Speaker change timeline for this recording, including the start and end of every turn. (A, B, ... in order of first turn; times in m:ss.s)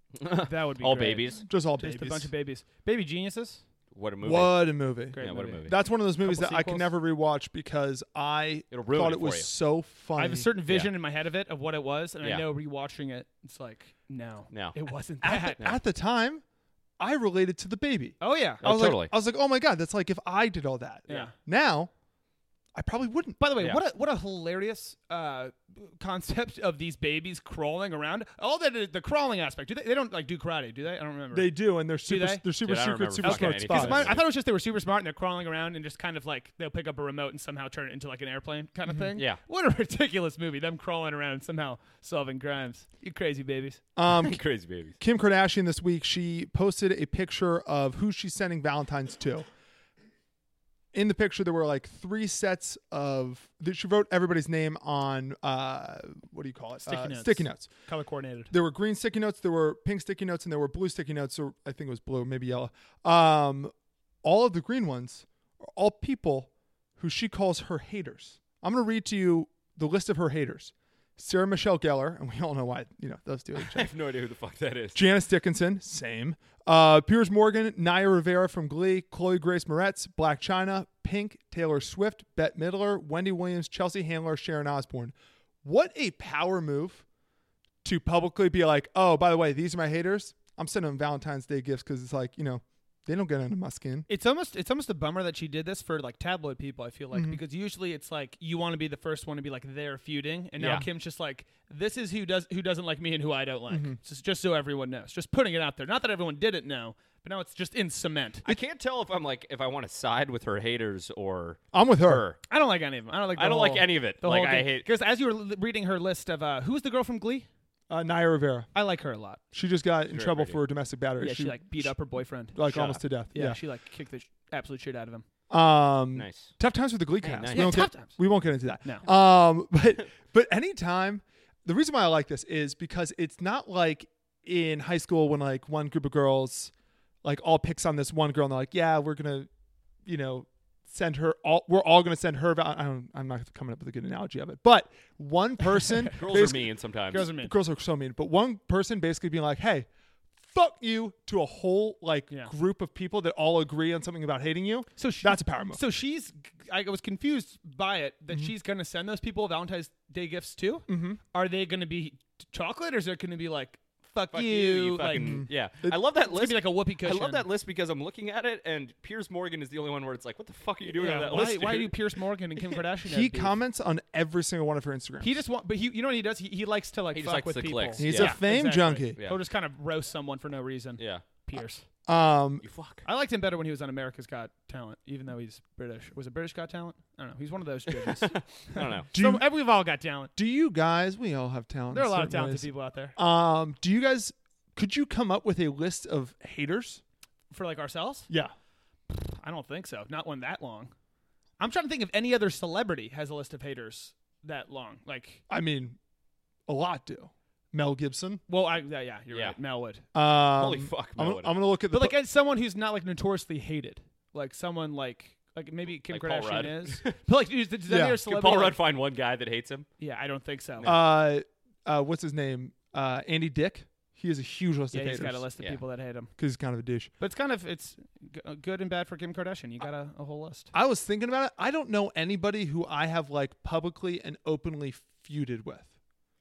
0:00.2-0:01.4 A
0:00.4-0:03.6 B
0:01.5-0:02.3 C
0:03.9-0:05.8 A
0:04.2-0:10.5 C
0:05.1-0:06.9 B
0:08.7-0:09.5 A
0:10.2-0:15.6 B
0:10.7-0:10.9 A
0:14.5-0:14.8 A
0:15.2-0:16.4 C
0:17.0-0:21.9 C
0:18.2-0:18.6 B
0:18.6-0:19.1 A
0:21.1-0:21.3 B
0:22.8-0:23.4 C
0:23.4-0:32.5 B
0:31.3-0:34.2 C
0:32.6-0:34.2 A
0:33.2-0:43.8 B
0:44.0-0:44.4 C
0:44.1-0:45.0 A
0:45.0-0:49.5 C
0:50.9-0:57.7 C
0:56.9-0:58.5 B
0:58.5-1:03.7 C
1:04.2-1:13.9 C
1:13.6-1:15.0 A
1:14.9-1:27.0 C
1:27.8-1:34.1 C
1:34.1-1:48.5 B
1:37.1-1:37.4 C
1:40.6-1:40.9 A
1:43.7-1:44.0 C
1:48.4-1:52.4 A
1:51.7-1:52.2 C
1:52.5-1:57.5 B
1:53.4-1:54.9 A
1:57.9-1:58.7 C
1:58.7-1:59.4 B
1:59.5-2:02.0 C
2:00.1-2:00.6 A
2:01.2-2:05.2 B
2:02.5-2:03.6 C
2:02.7-2:03.0 A
2:05.5-2:16.7 C
2:06.2-2:06.5 A
2:07.2-2:07.9 A
2:07.5-2:08.2 B
2:17.2-2:19.5 C
2:20.1-2:29.9 C
2:26.2-2:27.3 A
2:27.1-2:27.5 B
2:30.4-2:35.8 C
2:35.0-2:45.4 B
2:40.9-2:41.2 C
2:44.3-2:52.0 A
2:45.1-2:46.0 C
2:46.2-2:47.5 B
2:50.9-2:53.6 B
2:53.1-2:55.3 C
2:55.2-3:01.8 B
2:57.1-2:58.4 A
2:58.0-2:59.2 C
3:01.0-3:01.2 A
3:02.1-3:02.6 C
3:02.6-3:03.1 A
3:03.0-3:10.3 B
3:07.9-3:09.1 A
3:09.1-3:09.5 C
3:10.4-3:17.0 C
3:11.9-3:13.2 B
3:17.5-3:18.3 B
3:19.1-3:20.9 B
3:21.6-3:25.4 B
3:25.5-3:26.0 C
3:26.7-3:28.4 C
3:28.5-3:30.0 B
3:29.3-3:29.6 A
3:30.1-3:32.2 C
3:30.6-3:31.5 A
3:31.9-3:38.8 B
3:36.0-3:37.2 A
3:37.9-3:38.2 C
3:38.2-3:39.9 A
3:40.0-3:41.0 B
3:40.8-3:41.0 A
3:40.8-3:45.4 C
3:44.9-3:46.3 B
3:46.4-3:47.1 C
3:47.2-3:50.7 B
3:50.7-3:55.9 C